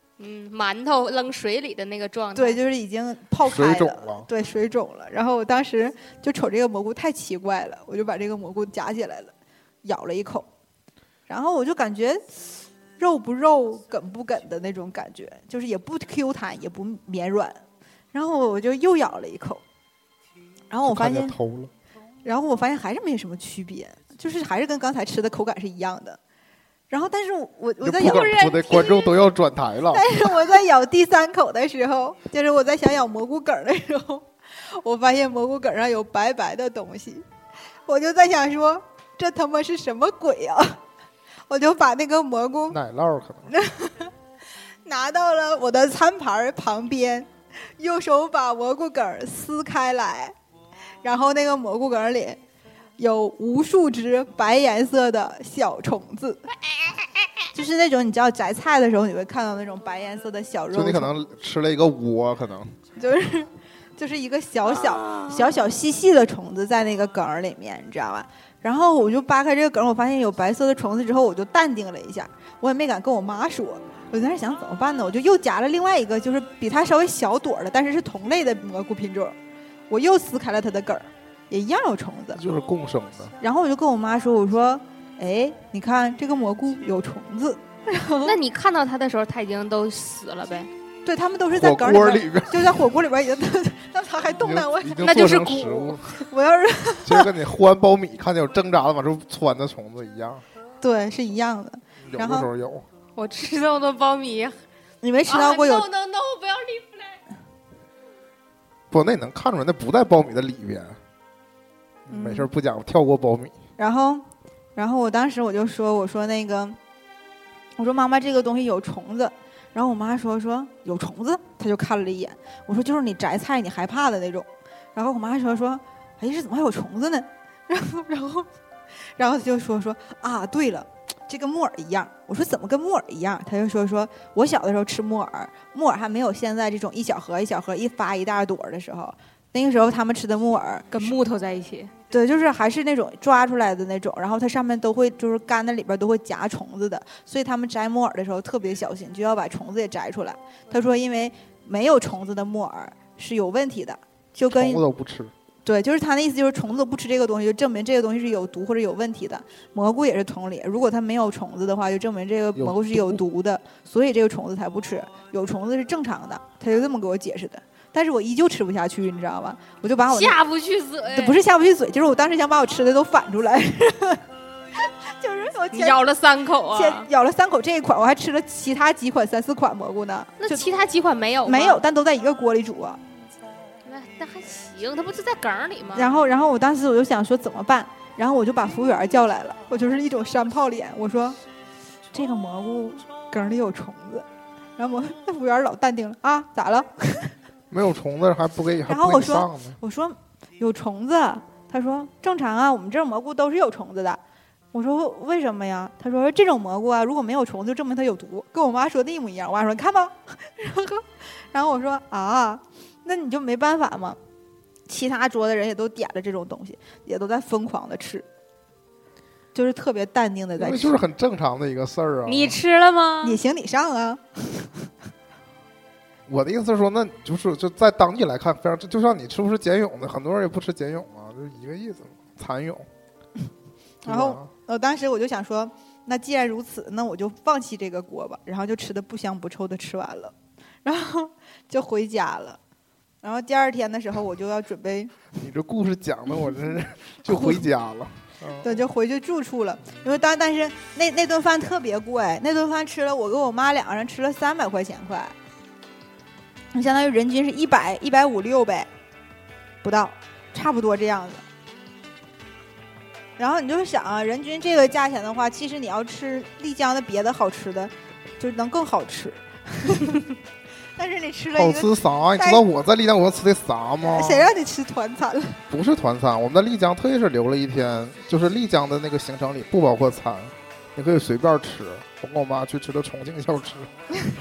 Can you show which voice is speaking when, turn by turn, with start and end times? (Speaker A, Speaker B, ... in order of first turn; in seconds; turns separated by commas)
Speaker A: 0.2-2.6, Speaker B: 2.4-9.3, Speaker C: 3.4-4.3, Speaker B: 9.8-10.5, Speaker B: 11.3-17.6, Speaker B: 18.1-19.6, Speaker B: 20.7-21.4, Speaker C: 20.8-21.7, Speaker B: 22.2-26.2, Speaker B: 26.9-29.1, Speaker C: 27.8-30.1, Speaker B: 29.9-37.3, Speaker B: 37.9-40.8, Speaker B: 41.5-42.8, Speaker C: 42.7-43.5, Speaker B: 43.5-44.1, Speaker B: 44.9-50.4, Speaker B: 51.0-52.4, Speaker B: 53.0-56.5, Speaker B: 57.5-61.1, Speaker C: 60.7-62.8, Speaker B: 63.0-79.4, Speaker A: 64.9-65.3, Speaker B: 79.9-82.5, Speaker C: 82.3-83.3, Speaker B: 83.4-88.4, Speaker A: 88.2-90.7, Speaker B: 91.0-95.3, Speaker C: 91.5-92.9, Speaker C: 94.4-96.2, Speaker A: 95.0-96.0, Speaker B: 96.1-97.3, Speaker C: 97.0-100.5, Speaker B: 100.8-102.5, Speaker C: 102.0-102.9, Speaker A: 103.2-104.6, Speaker B: 105.0-105.9, Speaker A: 105.3-107.2, Speaker C: 108.9-111.0, Speaker C: 112.1-113.6, Speaker B: 112.1-112.5, Speaker B: 113.8-114.2, Speaker B: 114.8-116.8, Speaker B: 117.8-128.5, Speaker B: 129.2-141.2, Speaker A: 140.9-141.9, Speaker B: 142.1-154.8, Speaker C: 154.5-155.3, Speaker B: 155.7-170.4, Speaker C: 162.6-163.2, Speaker A: 170.1-171.4, Speaker B: 171.1-174.2, Speaker B: 174.9-176.0, Speaker A: 175.7-177.1, Speaker B: 176.7-180.7, Speaker A: 180.4-181.8, Speaker B: 181.5-183.0, Speaker A: 183.8-186.2, Speaker B: 185.9-191.4, Speaker B: 192.1-194.3, Speaker B: 194.8-197.3, Speaker C: 197.7-199.8, Speaker B: 198.9-204.2, Speaker B: 204.7-214.2, Speaker B: 214.9-218.3, Speaker B: 219.5-221.0, Speaker C: 220.6-222.6, Speaker A: 222.3-223.4, Speaker B: 223.2-224.9, Speaker C: 226.3-232.9, Speaker B: 234.1-240.3, Speaker C: 234.1-234.5, Speaker B: 240.8-242.6, Speaker B: 243.2-245.2, Speaker C: 245.4-248.8, Speaker B: 247.3-247.7, Speaker B: 248.6-255.3, Speaker B: 256.7-258.9, Speaker B: 259.8-261.4, Speaker B: 263.4-270.2, Speaker B: 271.0-272.6, Speaker C: 271.6-274.5, Speaker B: 274.0-275.6, Speaker C: 275.7-283.9